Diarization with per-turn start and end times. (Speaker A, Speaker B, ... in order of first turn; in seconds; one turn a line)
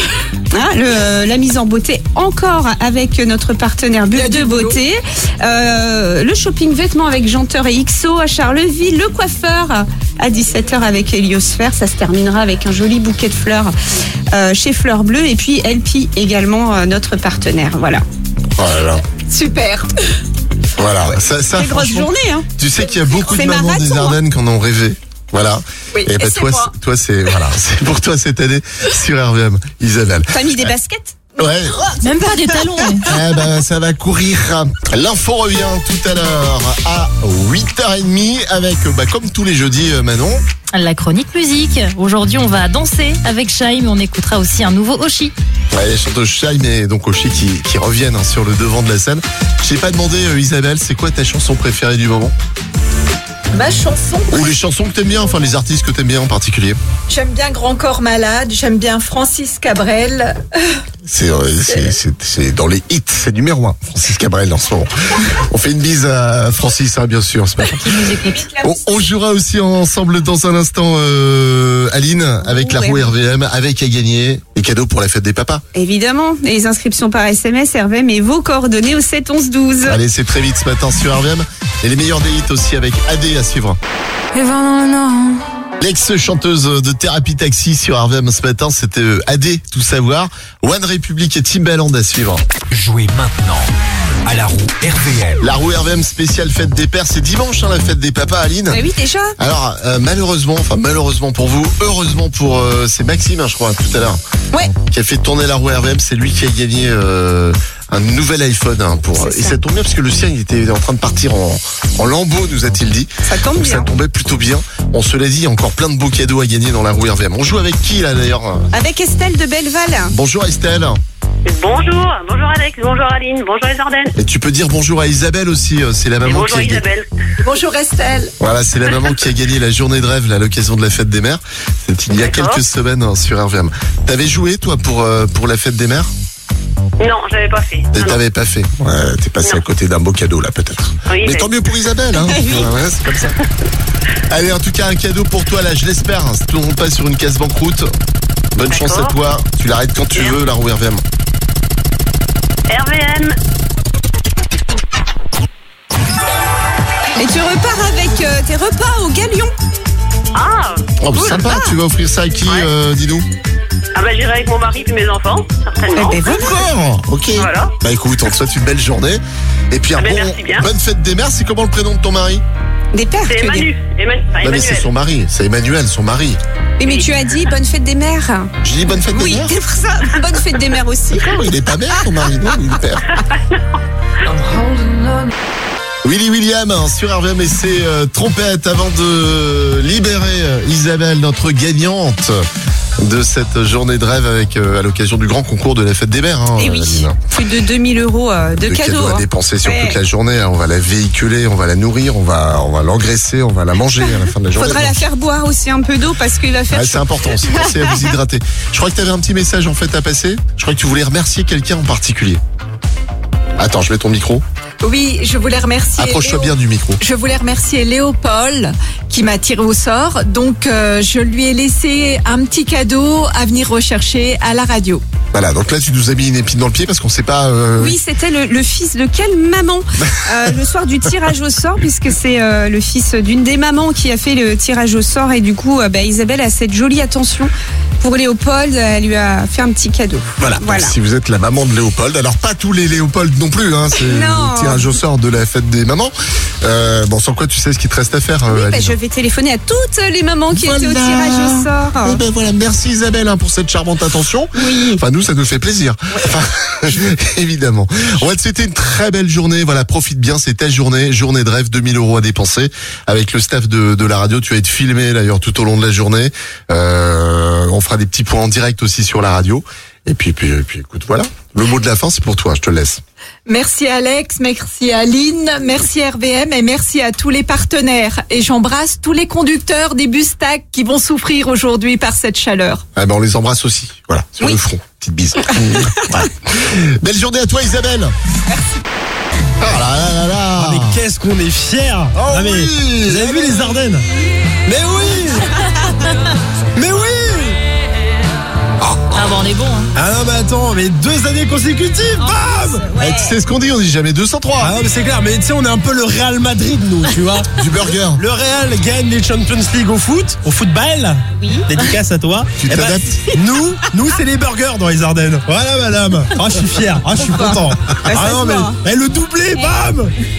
Speaker A: 0.5-13.7
Speaker B: 4.1-4.8
Speaker A: 14.3-18.0
Speaker C: 18.6-19.0
Speaker B: 19.3-19.9
Speaker C: 20.8-30.7
Speaker A: 21.5-22.5
Speaker A: 23.3-24.2
Speaker B: 25.9-26.7
Speaker A: 30.3-31.2
Speaker C: 31.4-31.8
Speaker D: 32.0-33.1
Speaker C: 33.0-40.4
Speaker D: 40.7-45.3
Speaker C: 45.7-52.3
Speaker B: 53.5-54.5
Speaker C: 54.3-56.8
Speaker B: 57.1-60.8
Speaker C: 61.1-68.0
Speaker B: 61.7-62.0
Speaker D: 67.8-68.4
Speaker A: 68.2-68.9
Speaker C: 68.6-75.6
Speaker A: 72.4-73.1
Speaker A: 75.8-80.0
Speaker C: 79.8-83.8
Speaker C: 85.8-92.4
Speaker E: 92.7-93.7
Speaker E: 94.3-95.4
Speaker C: 95.4-98.8
Speaker A: 98.7-99.3
Speaker C: 99.4-104.2
Speaker C: 104.9-118.7
Speaker A: 109.2-109.6
Speaker A: 113.2-113.9
Speaker A: 118.7-120.2
Speaker C: 120.1-121.0
Speaker F: 121.5-124.1
Speaker C: 124.2-126.8
Speaker F: 126.2-127.1
Speaker B: 127.4-128.3
Speaker C: 128.4-136.1
Speaker F: 132.2-132.6
Speaker F: 137.0-138.2
Speaker C: 137.9-143.4
Speaker F: 141.1-141.6
Speaker A: 142.3-142.7
Speaker C: 144.3-147.9
Speaker C: 148.6-151.0
Speaker F: 148.7-149.1
Speaker F: 152.7-153.4
Speaker A: 157.2-159.5
Speaker F: 160.3-160.8
Speaker C: 161.0-163.3
Speaker A: 161.2-161.8
Speaker F: 162.4-162.7
Speaker F: 163.9-166.3
Speaker A: 166.0-166.6
Speaker C: 166.2-172.4
Speaker F: 167.4-167.7
Speaker F: 170.0-170.7
Speaker A: 172.9-173.7
Speaker F: 173.2-174.9
Speaker C: 174.4-176.4
Speaker A: 176.8-178.5
Speaker F: 176.8-177.1
Speaker C: 178.6-179.6
Speaker A: 179.1-181.3
Speaker C: 181.1-183.1
Speaker C: 186.0-192.5
Speaker C: 193.0-197.2
Speaker A: 196.6-200.0
Speaker C: 198.6-205.1
Speaker A: 204.6-208.0
Speaker C: 206.7-212.4
Speaker C: 213.6-214.4
Speaker B: 214.8-225.0
Speaker C: 216.0-217.0
Speaker C: 225.3-228.0
Speaker A: 227.8-240.9
Speaker C: 240.4-249.0
Speaker A: 244.0-244.9
Speaker A: 248.5-252.2
Speaker C: 250.5-273.0
Speaker A: 254.6-255.0
Speaker B: 273.5-282.8
Speaker C: 282.9-288.1
Speaker B: 288.5-288.8
Speaker C: 289.6-291.0
Speaker G: 290.6-294.1
Speaker C: 292.1-293.4
Speaker G: 294.7-295.5
Speaker G: 296.8-297.6
Speaker D: 299.1-299.9
Speaker G: 299.9-302.9
Speaker A: 302.2-303.4
Speaker C: 303.0-304.8
Speaker G: 304.6-307.5
Speaker C: 307.6-308.2
Speaker G: 308.1-320.1
Speaker A: 311.4-311.7
Speaker C: 312.6-313.2
Speaker A: 317.2-318.8